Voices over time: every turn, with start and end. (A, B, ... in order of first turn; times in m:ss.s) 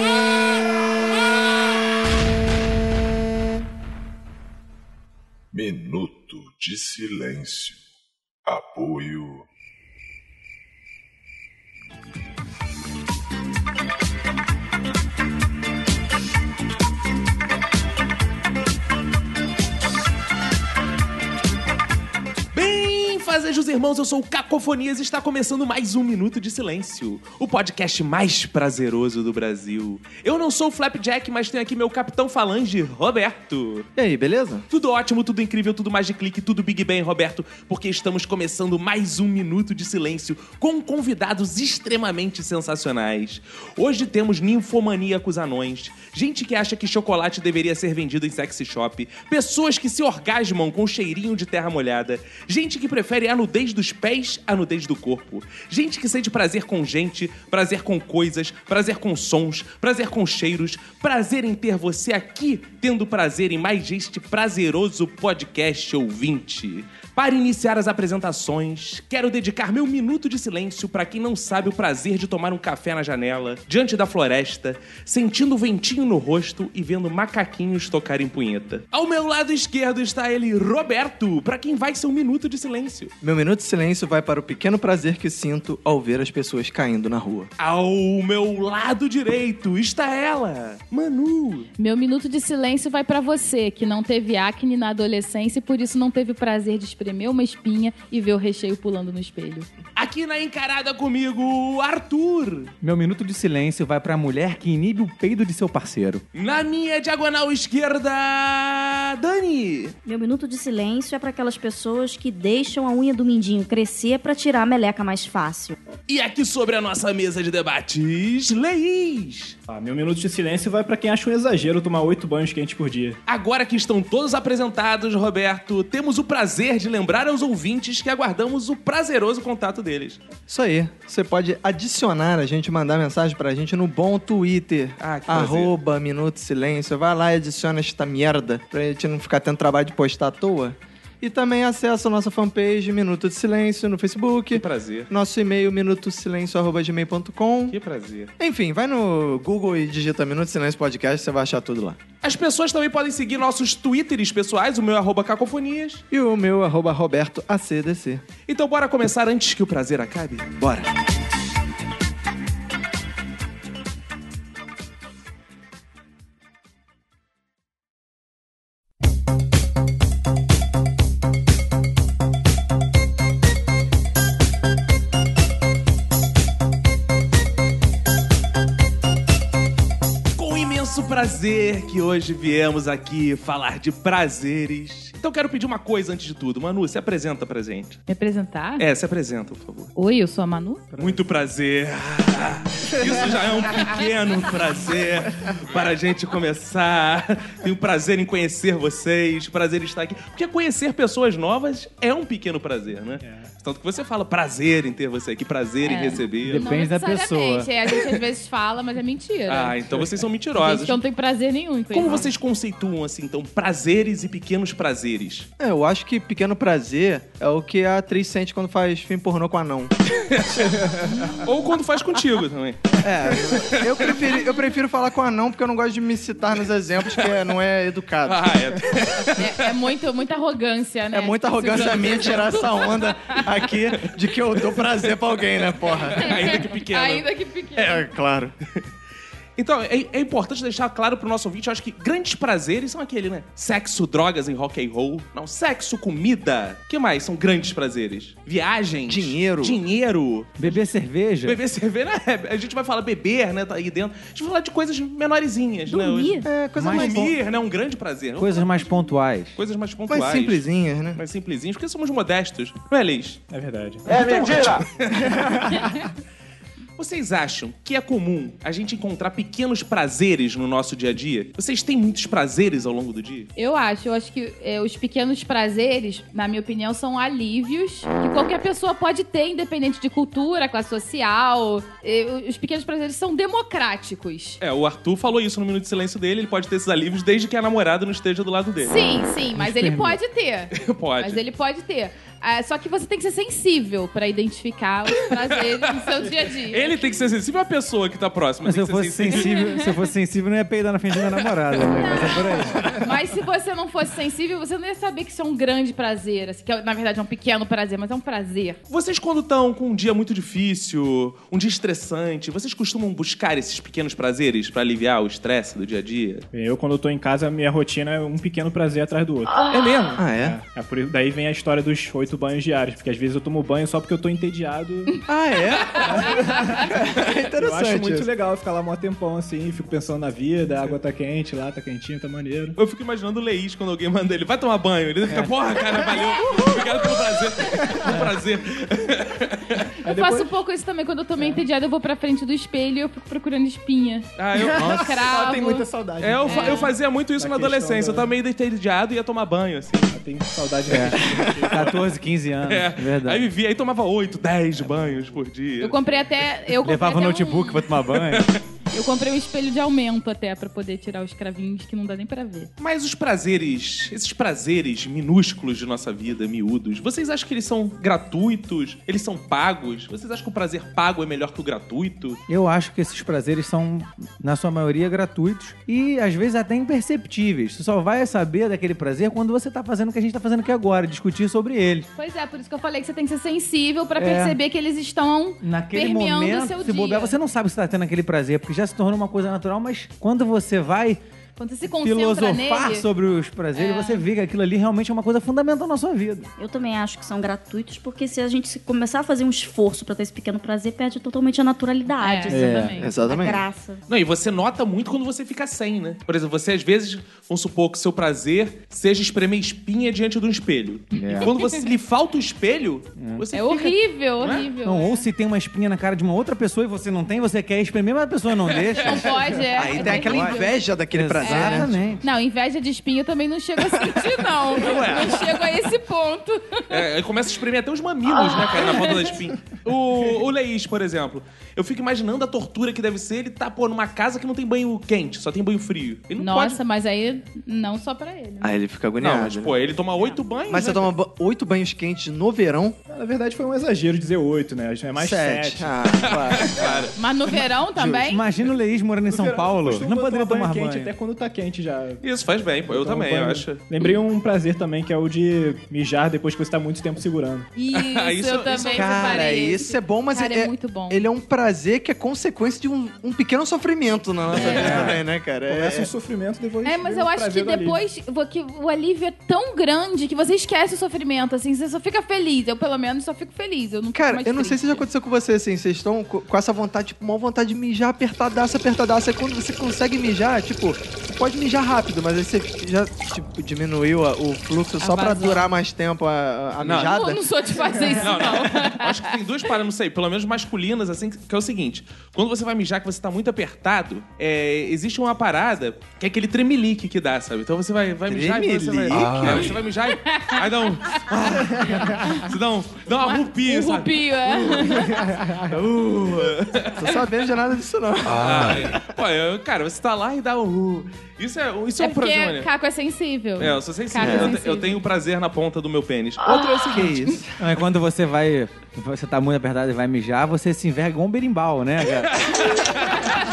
0:05.5-0:07.8 A
0:08.5-0:09.5 A
0:22.5-0:33.9 B
0:34.0-0:34.6 C
0:34.7-1:23.1 B
1:23.2-1:27.5 C
1:27.6-1:31.7 B
1:31.8-1:39.7 D
1:40.0-1:42.7 B
1:42.8-1:46.2 E
1:46.3-1:50.0 B
1:50.0-1:55.8 F
1:56.1-1:59.6 B
1:59.7-2:03.2 G
2:03.3-2:10.2 B
2:10.5-2:27.8 C
2:15.0-2:15.8 B
2:24.5-2:25.1 B
2:27.7-2:28.3 B
2:28.4-2:32.0 C
2:32.2-2:36.0 B
2:36.1-2:38.2 C
2:38.5-2:40.5 B
2:40.6-2:40.9 C
3:00.4-3:08.0 B
3:08.1-3:08.8 D
3:08.8-3:09.9 B
3:10.0-3:10.9 D
3:11.0-3:26.7 B
3:23.2-3:23.5 G
3:25.8-3:29.8 D
3:26.4-3:27.7 E
3:29.5-3:31.0 B
3:29.9-3:30.2 G
3:30.6-3:32.3 D
3:31.9-3:35.5 B
3:35.6-3:39.9 C
3:40.2-3:44.2 B
3:41.0-3:41.4 D
3:43.0-3:48.5 C
3:48.3-3:49.6 B
3:49.4-3:53.4 D
3:51.1-3:56.6 C
3:51.7-3:52.5 B
3:56.1-3:57.3 B
3:56.2-3:58.1 D
3:57.8-3:58.5 C
3:59.6-4:10.8 B
4:09.1-4:09.8 C
4:10.6-4:11.6 E
4:11.4-4:18.8 B
4:15.9-4:16.5 F
4:16.4-4:17.3 C
4:16.8-4:17.4 E
4:18.4-4:19.6 E
4:19.6-4:23.4 B
4:20.1-4:21.2 C
4:23.5-4:26.0 G
4:24.1-4:25.4 B
4:27.0-4:33.5 B
4:33.6-4:44.6 D
4:44.6-4:49.1 B
4:48.8-4:57.0 D
4:49.5-4:50.2 E
4:50.8-4:51.4 B
4:56.1-4:59.6 B
4:58.6-5:03.0 E
4:59.3-4:59.9 D
5:01.8-5:08.8 D
5:08.9-5:16.4 B
5:16.5-5:25.2 G
5:19.8-5:20.0 B
5:20.2-5:20.6 C
5:25.3-5:28.3 C
5:26.0-5:27.0 G
5:27.6-5:32.8 G
5:32.8-5:39.9 B
5:35.3-5:35.5 E
5:37.8-5:38.2 G
5:40.0-5:45.9 D
5:40.0-5:40.6 G
5:41.4-5:41.6 G
5:44.4-5:45.2 B
5:44.6-5:48.3 G
5:46.2-5:50.2 B
5:46.4-5:46.9 D
5:50.1-5:52.1 G
5:50.9-5:53.5 E
5:52.7-5:56.0 B
5:55.8-5:57.9 D
5:56.8-5:58.5 E
5:58.1-5:58.6 B
5:58.9-6:02.7 D
6:02.8-6:12.4 B
6:12.5-6:22.1 E
6:22.2-6:27.4 D
6:24.2-6:24.6 E
6:25.6-6:31.2 E
6:31.6-6:33.1 D
6:32.0-6:36.5 E
6:33.8-6:34.2 D
6:36.6-6:44.0 F
6:42.2-6:43.1 D
6:42.5-6:43.0 E
6:43.0-6:43.6 C
6:44.1-6:54.7 B
6:51.1-6:51.9 D
6:51.2-6:51.5 E
6:53.2-6:53.5 E
6:53.5-6:55.3 D
6:54.8-7:02.2 E
6:58.9-7:00.9 D
6:59.7-7:02.0 C
7:01.4-7:07.0 D
7:04.7-7:05.7 B
7:06.9-7:16.8 B
7:08.6-7:09.3 D
7:16.4-7:18.8 D
7:18.6-7:19.8 C
7:19.2-7:21.1 B
7:20.7-7:23.0 C
7:23.1-7:26.7 G
7:25.2-7:27.1 C
7:26.3-7:27.1 B
7:27.2-7:28.4 D
7:28.0-7:28.3 C
7:28.0-7:31.1 E
7:29.3-7:32.2 G
7:32.2-7:33.9 B
7:32.9-7:37.7 G
7:37.8-7:41.2 D
7:37.9-7:39.5 B
7:38.9-7:46.1 C
7:44.5-7:48.0 G
7:44.6-7:45.2 B
7:46.8-7:55.0 D
7:54.2-8:07.8 C
8:05.0-8:05.6 D
8:06.8-8:07.2 B
8:06.9-8:09.3 D
8:08.2-8:25.0 B
8:18.3-8:19.8 C
8:20.1-8:22.5 D
8:23.2-8:25.3 D
8:25.2-8:25.6 G
8:25.7-8:27.2 B
8:25.9-8:29.0 C
8:28.4-8:32.7 B
8:32.0-8:35.0 D
8:33.6-8:37.3 B
8:34.2-8:34.5 C
8:36.9-8:37.6 C
8:37.6-8:42.4 E
8:42.3-8:43.3 B